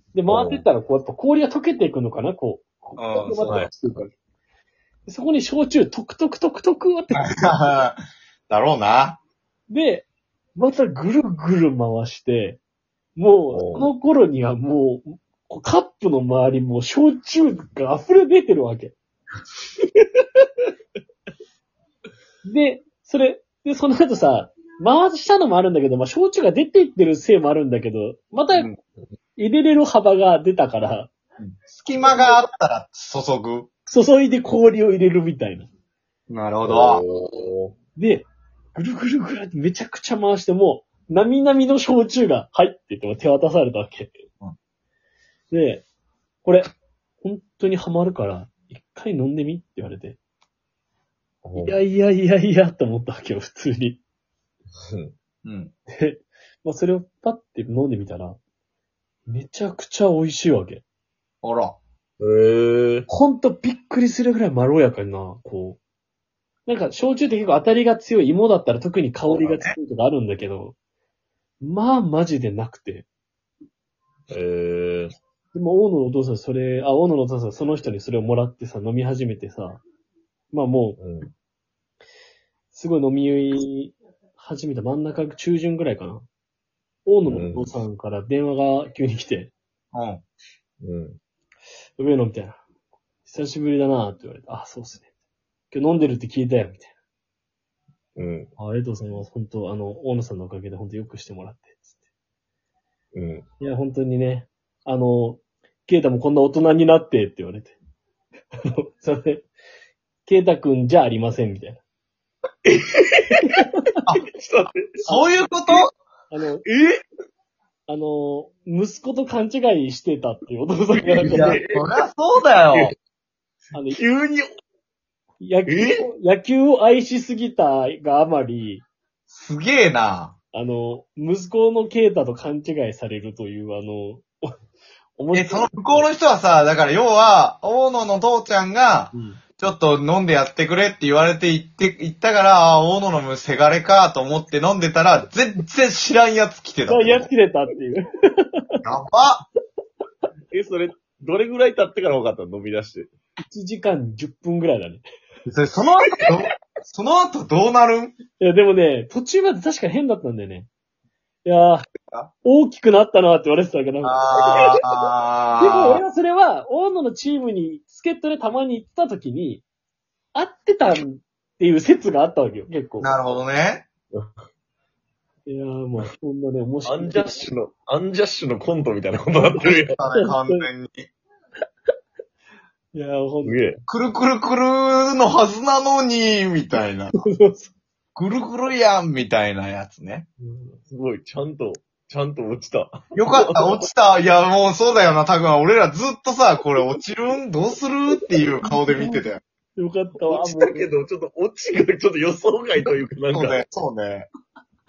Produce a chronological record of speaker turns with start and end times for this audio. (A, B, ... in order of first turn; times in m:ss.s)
0:00.1-0:04.1 A
0:00.3-0:00.6 B
0:03.0-0:03.6 C
0:03.4-0:03.7 B
0:05.1-0:07.5 A
0:07.1-0:08.0 C
0:08.5-0:09.2 C
0:09.7-0:12.6 A
0:13.2-0:18.9 A
0:13.5-0:13.9 B
0:22.4-0:28.7 A
0:29.4-0:31.1 A
0:31.4-0:33.7 C
0:32.0-0:32.4 A
0:33.9-0:35.7 A
0:36.3-0:37.0 C
0:36.6-0:37.7 B
0:38.0-0:44.1 A
0:45.5-0:45.8 A
0:47.2-0:50.2 A
0:51.4-0:51.8 B
0:51.6-0:54.0 A
0:55.4-0:55.7 C
0:56.0-0:58.4 A
0:59.3-1:00.8 A
1:01.4-1:01.8 C
1:02.2-1:03.1 B
1:03.1-1:05.8 A
1:06.7-1:10.8 A
1:09.4-1:09.8 C
1:11.6-1:13.1 A
1:14.3-1:15.1 B
1:15.5-1:19.8 A
1:20.5-1:21.0 A
1:21.0-1:21.3 B
1:22.7-1:26.2 A
1:27.0-1:29.5 A
1:27.3-1:27.7 B
1:29.9-1:30.2 C
1:30.8-1:31.2 B
1:32.0-1:32.6 A
1:33.2-1:35.1 A
1:35.7-1:36.9 A
1:38.2-1:38.5 B
1:38.6-1:42.0 A
1:43.1-1:43.4 B
1:43.6-1:47.8 A
1:48.6-1:49.5 A
1:50.3-1:51.8 A
1:52.6-1:53.6 B
1:54.4-1:54.7 B
1:55.1-1:55.4 A
1:55.1-1:55.9 C
1:56.3-1:56.6 A
1:56.6-1:57.0 B
1:57.9-2:01.6 A
2:00.9-2:02.0 B
2:01.2-2:02.9 C
2:03.7-2:04.0 A
2:03.9-2:04.5 B
2:05.4-2:08.8 A
2:05.7-2:06.1 B
2:09.3-2:10.4 C
2:10.5-2:14.5 A
2:15.2-2:16.1 A
2:15.3-2:27.3 C
2:19.1-2:19.4 A
2:26.9-2:28.6 A
2:28.8-2:29.5 C
2:30.5-2:33.1 B
2:33.4-2:35.0 A
2:35.5-2:38.1 C
2:38.4-2:40.7 A
2:41.4-2:41.9 A
2:42.4-2:44.7 A
2:44.0-2:46.0 C
2:45.6-2:49.6 A
2:50.3-2:53.2 A
2:53.0-2:53.9 C
2:55.5-2:57.5 A
2:56.9-3:00.0 B
2:59.6-3:01.1 C
3:00.1-3:00.7 A
3:02.9-3:03.6 A
3:03.4-3:03.8 B
3:03.9-3:07.2 C
3:07.1-3:07.7 A
3:08.2-3:10.3 C
3:10.4-3:10.8 A
3:10.9-3:13.8 B
3:13.1-3:19.4 C
3:18.6-3:19.2 A
3:19.8-3:20.9 A
3:20.3-3:23.6 B
3:23.3-3:24.3 C